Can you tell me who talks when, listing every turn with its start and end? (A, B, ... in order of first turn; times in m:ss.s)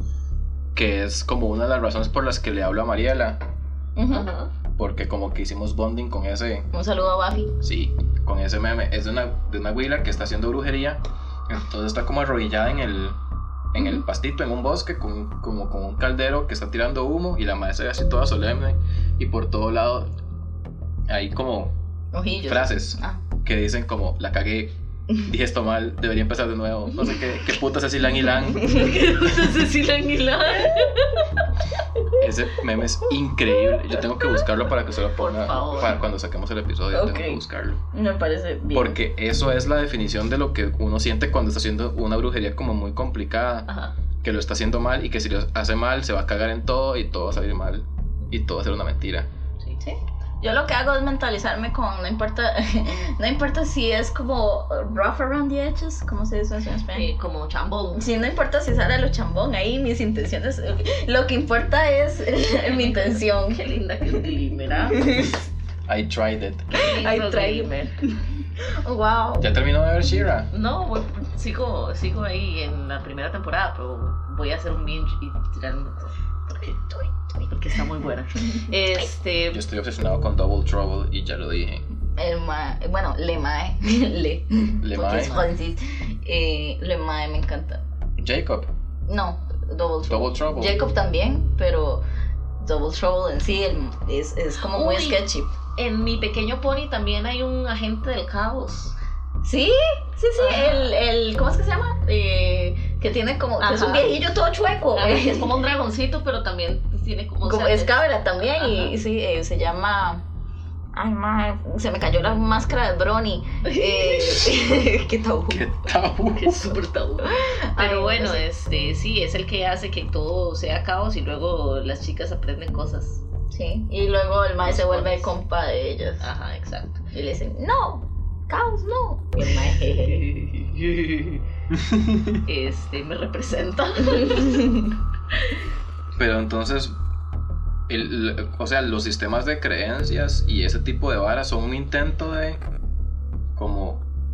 0:00.7-0:03.4 A
0:04.0-0:04.3 B
0:04.1-0:04.5 C
0:04.8-0:06.7 A
0:06.7-0:07.5 B
0:07.6-0:13.2 A
0:13.7-0:20.1 A
0:21.1-0:21.7 A
0:22.1-0:23.2 B
0:22.5-0:28.8 A
0:28.6-0:28.9 B
0:28.6-0:31.3 C
0:32.2-0:37.8 A
0:35.2-0:36.0 C
0:36.9-0:39.0 B
0:38.7-0:43.7 A
0:43.7-0:43.9 C
0:44.2-0:49.3 A
0:49.8-0:57.1 B
0:56.9-0:58.1 C
0:57.9-1:04.3 B
1:02.6-1:05.1 C
1:04.9-1:05.4 B
1:05.9-1:06.7 A
1:06.7-1:07.9 C
1:06.7-1:09.5 B
1:09.4-1:10.5 A
1:10.5-1:16.8 C
1:16.8-1:17.8 B
1:17.5-1:19.6 C
1:19.5-1:21.8 A
1:22.2-1:27.8 B
1:24.8-1:25.3 A
1:25.1-1:25.5 C
1:28.2-1:28.7 A
1:29.1-1:32.0 B
1:30.1-1:30.8 A
1:32.6-1:35.5 B
1:34.6-1:35.2 C
1:35.8-1:38.9 C
1:39.4-1:45.5 B
1:40.4-1:40.9 C
1:43.6-1:44.1 C
1:44.9-1:49.0 C
1:47.4-1:50.2 B
1:50.9-1:55.6 B
1:53.6-1:54.6 C
1:55.5-1:56.8 A
1:56.4-2:03.2 C
1:57.2-1:58.4 B
2:03.5-2:06.3 B
2:04.6-2:05.3 C
2:06.2-2:07.0 C
2:07.1-2:10.2 B
2:09.5-2:11.4 C
2:12.4-2:14.8 C
2:14.1-2:14.9 B
2:16.2-2:16.9 A
2:17.9-2:22.6 A
2:23.5-2:24.0 A